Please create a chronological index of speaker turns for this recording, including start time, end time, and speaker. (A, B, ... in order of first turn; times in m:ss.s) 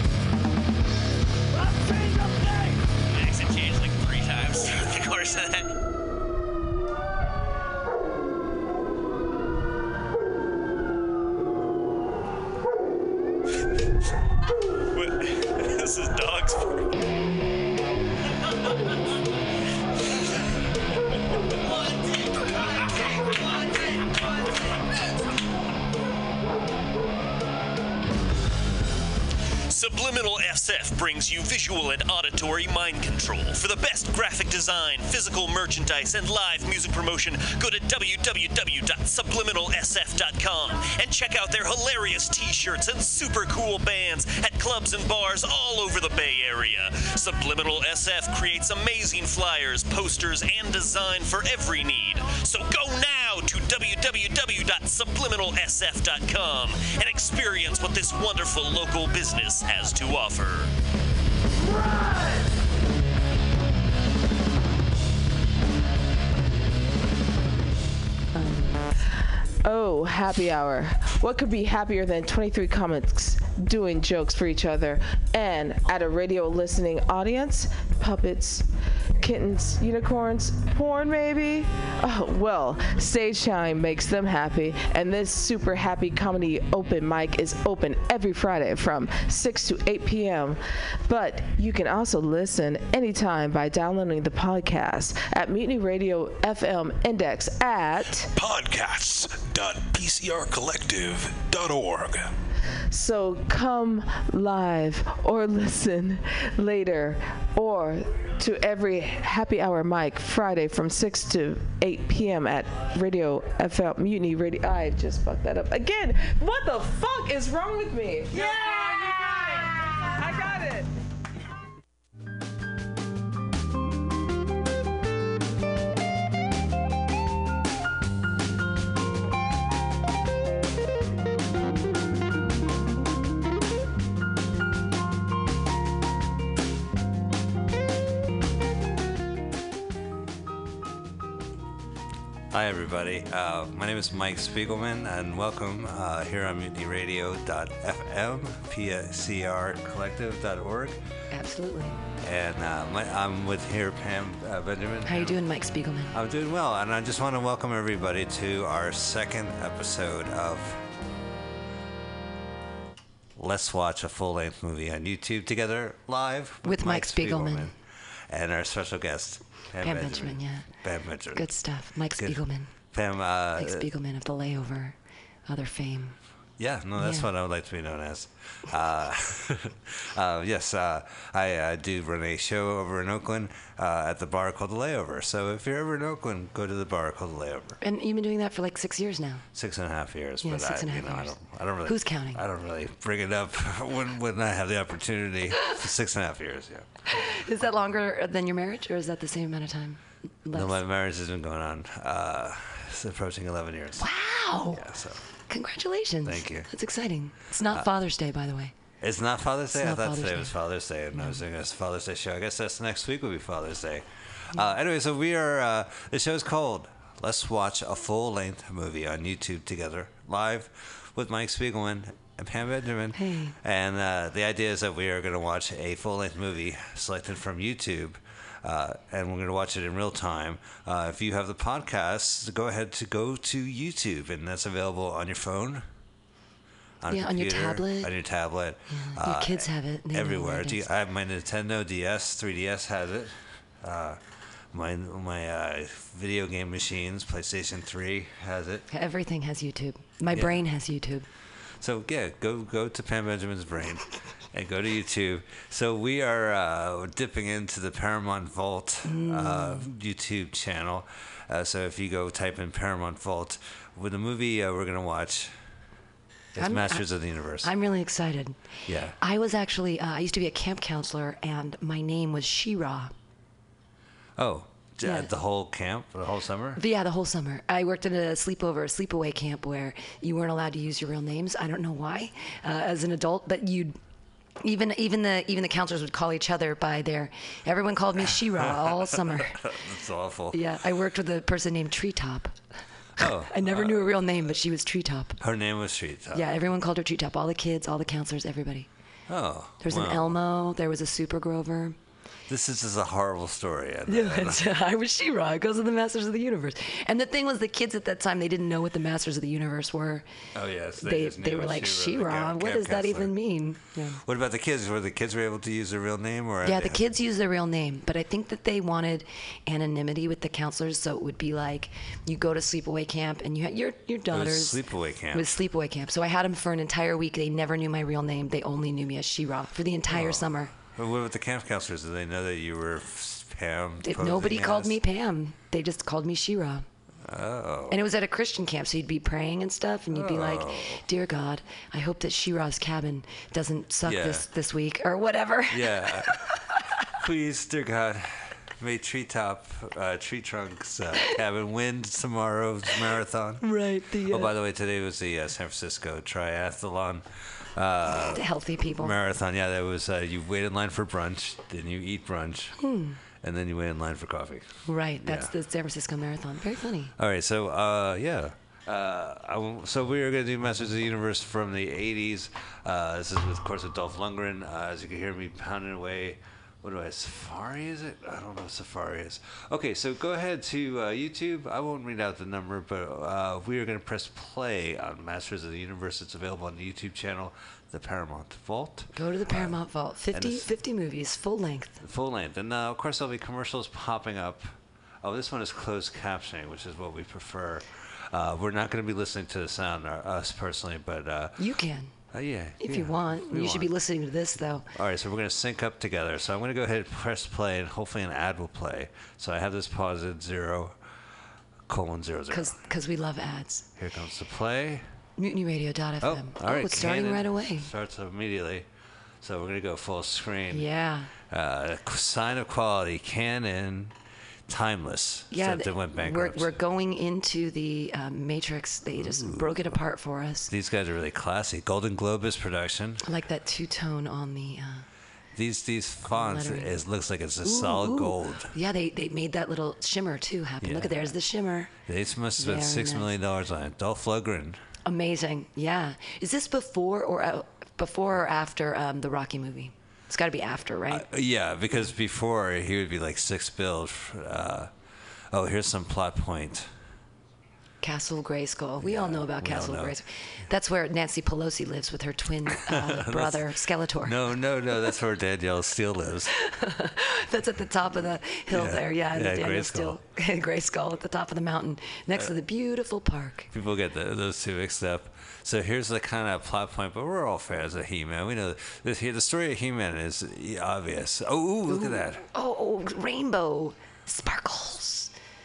0:01.9-0:05.7 A
0:14.9-0:16.9 B
0:29.7-1:00.7 B
1:08.4-1:08.8 C
1:09.0-1:38.3 D
1:38.4-1:42.3 E
1:42.9-2:00.9 D
2:22.5-2:31.0 F
2:31.3-2:32.0 C
2:32.2-2:35.4 F
2:35.0-2:36.1 C
2:36.1-2:40.8 F
2:43.4-2:47.8 F
2:46.6-2:47.7 C
2:48.3-2:51.5 F
2:49.8-2:50.7 C
2:51.3-2:52.7 C
2:52.9-2:53.9 F
2:53.6-2:55.0 C
2:55.5-2:56.2 C
2:56.6-3:07.8 F
2:57.0-2:57.3 C
3:07.8-3:09.4 C
3:09.5-3:16.9 F
3:10.4-3:12.4 C
3:17.1-3:20.8 C
3:20.5-3:24.1 F
3:24.0-3:24.8 C
3:24.7-3:25.2 F
3:25.5-3:28.8 C
3:26.2-3:26.7 F
3:29.0-3:55.9 F
3:29.7-3:30.5 C
3:43.2-3:43.6 C
3:57.0-4:04.2 F
3:57.1-3:58.1 C
3:58.9-4:00.8 C
4:04.7-4:08.9 F
4:08.9-4:11.3 C
4:10.3-4:10.6 F
4:11.8-4:25.5 F
4:19.0-4:19.9 C
4:26.6-4:27.7 F
4:26.6-4:27.1 C
4:27.6-4:28.6 C
4:28.9-4:29.2 F
4:29.2-4:33.1 C
4:34.4-4:36.8 F
4:35.0-4:35.3 C
4:36.8-4:44.0 C
4:44.6-4:49.6 C
4:48.6-4:50.6 F
4:50.5-4:52.6 C
4:53.2-4:54.2 F
4:53.2-4:55.4 C
4:55.4-4:56.5 F
4:56.3-4:58.9 C
4:59.3-5:00.4 F
4:59.8-5:02.0 C
5:02.5-5:04.7 F
5:04.1-5:10.3 C
5:10.5-5:13.4 F
5:11.0-5:14.2 C
5:14.2-5:17.0 F
5:16.6-5:24.8 C
5:24.3-5:25.6 F
5:25.3-5:30.7 C
5:30.1-5:35.0 F
5:34.0-5:36.8 C
5:37.2-5:38.0 F
5:37.9-5:46.8 C
5:40.1-5:41.0 F
5:44.1-5:44.5 F
5:45.7-5:46.5 F
5:47.1-5:53.7 F
5:53.6-5:54.5 C
5:54.2-5:58.5 F
5:58.2-5:59.1 C
5:59.0-6:02.8 F
6:02.8-6:03.2 C
6:03.4-6:05.5 F
6:04.9-6:07.1 C
6:07.2-6:29.8 F
6:29.1-6:32.0 C
6:30.3-6:30.7 F
6:32.0-6:41.6 F
6:41.6-6:42.1 C
6:42.3-6:43.9 F
6:42.8-6:44.9 C
6:45.0-6:51.0 F
6:51.9-6:52.8 F
6:52.5-6:53.9 C
6:54.0-6:55.0 F
6:55.4-6:57.9 C
6:56.2-6:58.9 F
6:59.4-7:00.9 F
7:00.7-7:01.3 C
7:01.5-7:04.2 F
7:04.7-7:06.8 F
7:05.5-7:10.7 C
7:09.2-7:10.0 F
7:10.7-7:13.2 F
7:13.2-7:15.0 C
7:15.6-7:18.8 F
7:16.3-7:17.0 C
7:17.6-7:21.9 C
7:20.8-7:21.3 F
7:22.1-7:24.8 F
7:22.6-7:23.3 C
7:25.1-7:31.3 C
7:31.1-7:34.9 F
7:35.5-7:36.9 F
7:38.0-7:44.4 C
7:39.0-7:40.2 F
7:42.8-7:46.5 F
7:46.5-7:53.7 C
7:48.7-7:50.2 F
7:53.7-8:02.4 F
8:01.9-8:05.3 C